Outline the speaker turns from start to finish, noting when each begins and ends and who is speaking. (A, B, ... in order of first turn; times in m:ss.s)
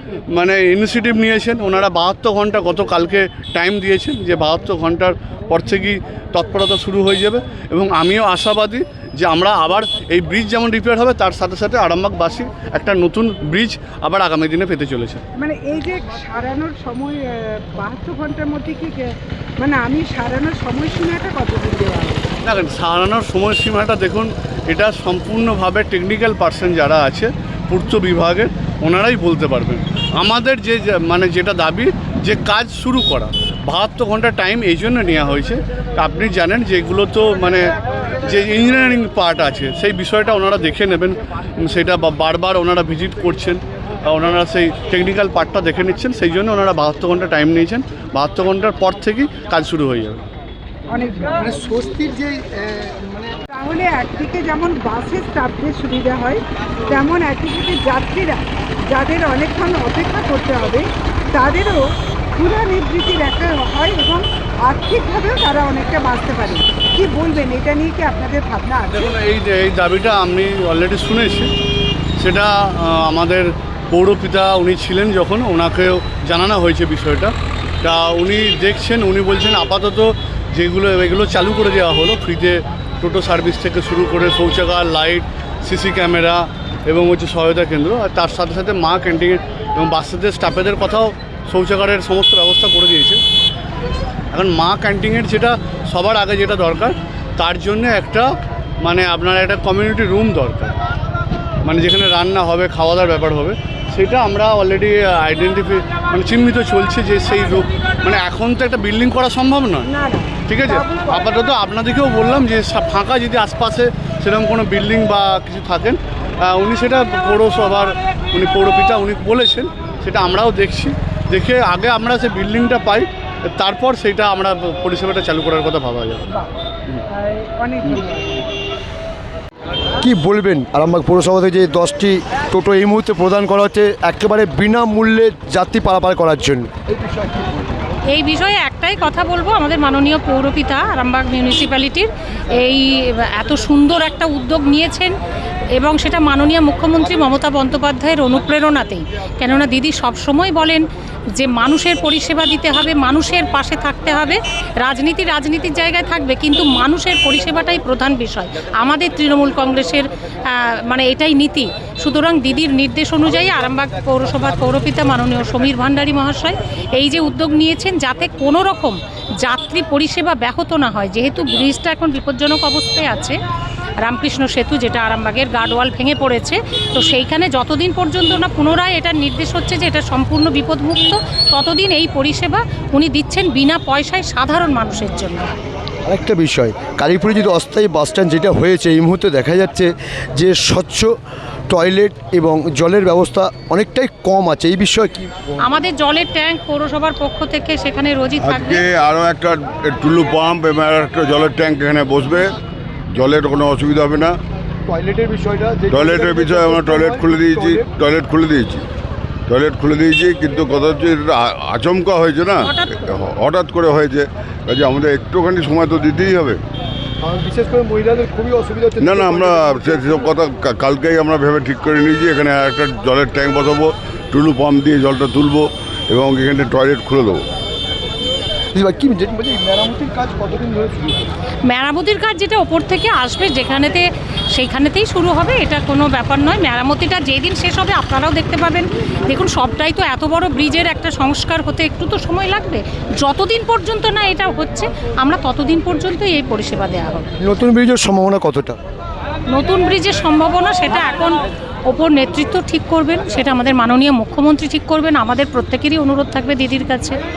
0:00.3-0:15.2 A
0:15.4-0:22.3 B
0:22.4-0:50.2 A
0:50.9-0:51.9 B
0:53.5-1:01.8 B
1:02.4-1:09.1 B
1:08.9-1:11.5 A
1:12.2-1:33.2 A
1:34.3-1:38.3 A
1:38.8-1:40.8 A
1:41.6-1:49.9 A
1:49.8-1:51.3 B
1:50.5-2:06.3 A
2:07.2-2:08.4 B
2:10.0-2:17.7 C
2:18.1-2:25.1 D
2:25.8-2:53.4 D
2:54.0-3:05.6 D
3:06.1-3:11.2 C
3:11.7-3:15.6 C
3:15.6-3:18.8 D
3:18.4-3:22.6 E
3:23.1-3:24.4 E
3:24.9-3:27.9 C
3:25.9-3:28.8 E
3:29.5-3:36.6 E
3:32.6-3:33.1 D
3:37.2-3:40.1 C
3:39.0-3:47.4 E
3:48.8-3:51.3 C
3:51.7-4:07.3 D
4:07.4-4:08.8 C
4:09.5-4:17.2 D